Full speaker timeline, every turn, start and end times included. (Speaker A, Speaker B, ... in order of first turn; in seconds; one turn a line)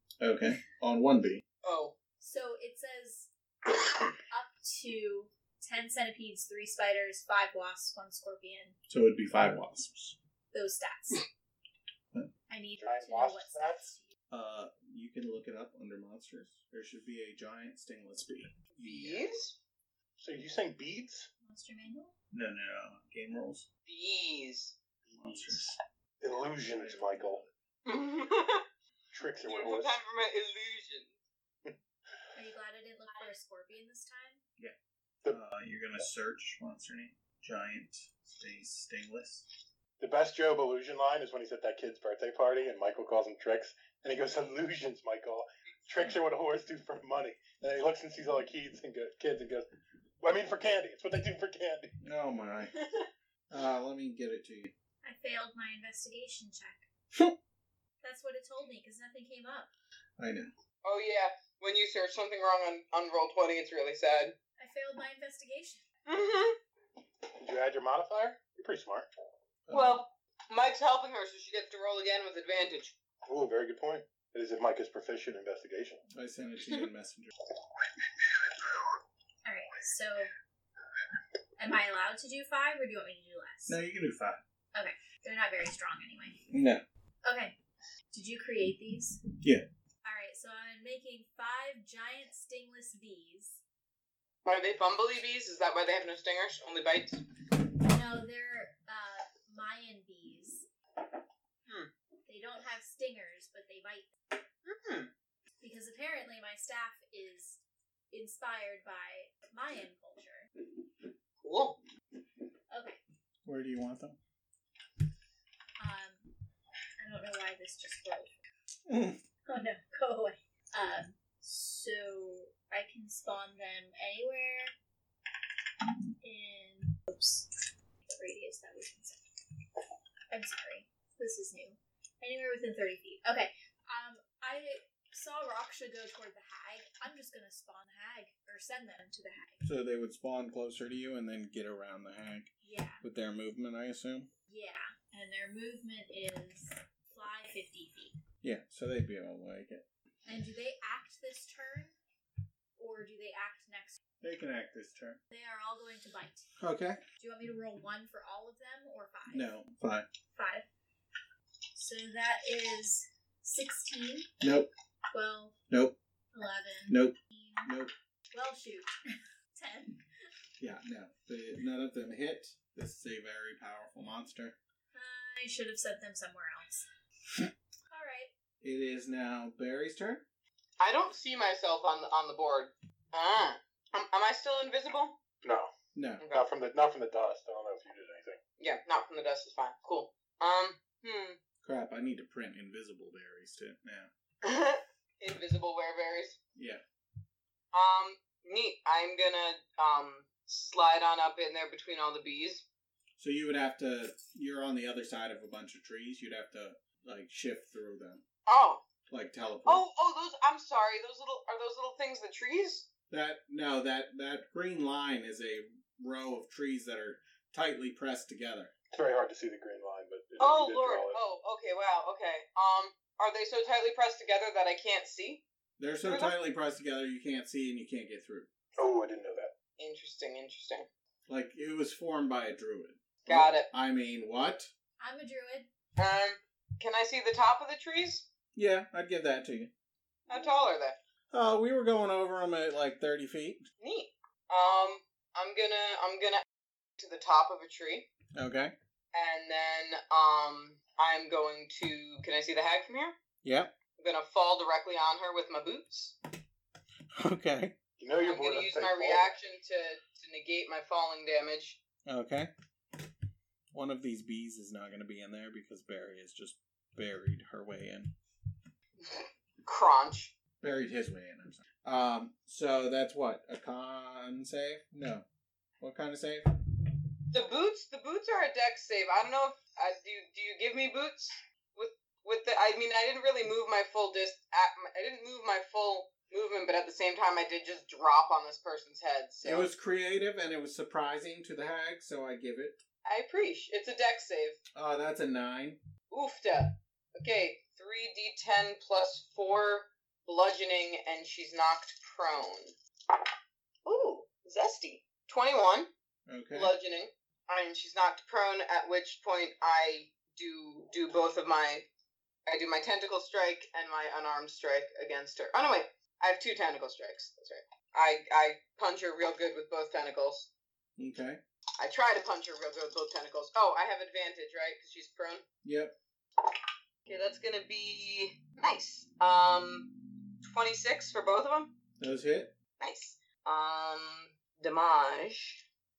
Speaker A: 0.2-1.4
Speaker B: 1.6-1.9
Speaker C: 2.2-8.8
Speaker A: 8.9-10.2
Speaker C: 10.5-11.2
Speaker C: 12.5-14.1
Speaker D: 12.8-13.9
Speaker A: 14.3-19.3
Speaker B: 18.8-19.5
Speaker D: 20.2-21.3
Speaker C: 21.4-22.1
Speaker A: 22.3-23.7
Speaker B: 23.9-24.7
Speaker D: 25.1-27.4
Speaker A: 25.1-25.6
Speaker A: 26.6-27.5
Speaker B: 27.9-28.6
Speaker D: 29.1-30.0
Speaker B: 29.4-31.1
Speaker C: 32.3-34.4
Speaker A: 35.3-39.4
Speaker D: 40.0-49.7
Speaker D: 50.2-51.9
Speaker A: 52.0-52.9
Speaker A: 53.5-54.7
Speaker C: 55.0-56.8
Speaker C: 58.0-59.7
Speaker A: 60.2-60.5
Speaker B: 60.8-64.3
Speaker C: 64.6-65.8
Speaker B: 66.0-66.6
Speaker D: 67.3-69.1
Speaker A: 69.7-70.0
Speaker B: 69.7-72.9
Speaker D: 73.2-76.0
Speaker A: 76.1-77.3
Speaker C: 79.4-80.3
Speaker C: 81.6-83.8
Speaker A: 83.7-84.4
Speaker C: 84.7-86.4
Speaker A: 86.5-86.8
Speaker C: 87.2-87.5
Speaker C: 88.1-89.2
Speaker C: 90.0-93.6
Speaker B: 94.4-97.2
Speaker C: 97.7-100.7
Speaker B: 101.7-101.9
Speaker C: 102.2-104.1
Speaker B: 104.6-105.1
Speaker C: 105.6-110.5
Speaker B: 111.4-111.8
Speaker C: 112.7-113.0
Speaker A: 113.4-114.2
Speaker C: 115.8-116.3
Speaker C: 117.0-118.4
Speaker A: 118.9-119.2
Speaker C: 119.5-124.7
Speaker C: 126.2-127.5
Speaker C: 128.1-129.2
Speaker C: 130.3-139.6
Speaker A: 139.6-144.3
Speaker C: 142.6-143.0
Speaker C: 144.5-148.2
Speaker A: 148.4-149.8
Speaker C: 150.2-151.9
Speaker C: 152.8-153.9
Speaker A: 154.2-155.2
Speaker C: 155.3-156.5
Speaker A: 156.6-157.0
Speaker C: 157.2-159.5
Speaker A: 159.3-160.1
Speaker C: 160.3-160.7
Speaker C: 161.7-164.3
Speaker A: 164.4-164.7
Speaker C: 165.1-165.6
Speaker C: 166.3-167.7
Speaker A: 166.9-167.9
Speaker C: 168.3-170.0
Speaker A: 170.6-174.6
Speaker C: 174.9-176.8
Speaker C: 177.9-178.3
Speaker A: 178.6-180.2
Speaker B: 180.8-185.2
Speaker D: 185.4-185.7
Speaker A: 185.9-186.2
Speaker D: 186.2-188.4
Speaker B: 188.6-191.4
Speaker A: 191.6-194.1
Speaker B: 194.4-196.4
Speaker A: 196.6-196.8
Speaker B: 197.7-202.6
Speaker A: 203.2-208.2
Speaker B: 208.5-208.8
Speaker A: 209.1-209.8
Speaker B: 209.6-212.9
Speaker A: 213.1-218.7
Speaker D: 218.9-221.2
Speaker B: 220.4-225.4
Speaker A: 225.8-228.5
Speaker B: 226.0-226.3
Speaker D: 228.8-229.5
Speaker B: 229.8-230.9
Speaker A: 231.3-234.7
Speaker B: 233.3-233.7
Speaker C: 235.0-235.7
Speaker B: 236.0-238.3
Speaker A: 238.5-239.7
Speaker B: 240.3-240.9
Speaker A: 241.3-243.7
Speaker B: 243.8-246.4
Speaker B: 247.0-248.1
Speaker A: 248.3-248.7
Speaker B: 249.1-253.2
Speaker A: 253.4-253.7
Speaker B: 254.0-256.1
Speaker A: 257.1-257.7
Speaker D: 258.0-259.3
Speaker B: 258.2-261.8
Speaker A: 262.1-262.5
Speaker A: 263.7-268.1
Speaker B: 269.0-270.3
Speaker A: 270.6-275.2
Speaker A: 275.8-276.6
Speaker B: 277.3-289.7
Speaker A: 289.4-292.8
Speaker B: 293.0-294.6
Speaker A: 294.7-295.8
Speaker B: 296.1-302.7
Speaker B: 303.8-305.9
Speaker A: 306.3-306.7
Speaker B: 306.5-311.9
Speaker B: 312.4-320.5
Speaker A: 321.0-321.4
Speaker B: 321.8-325.4
Speaker A: 325.6-325.9
Speaker B: 327.1-331.7
Speaker A: 332.0-332.5
Speaker B: 332.8-335.6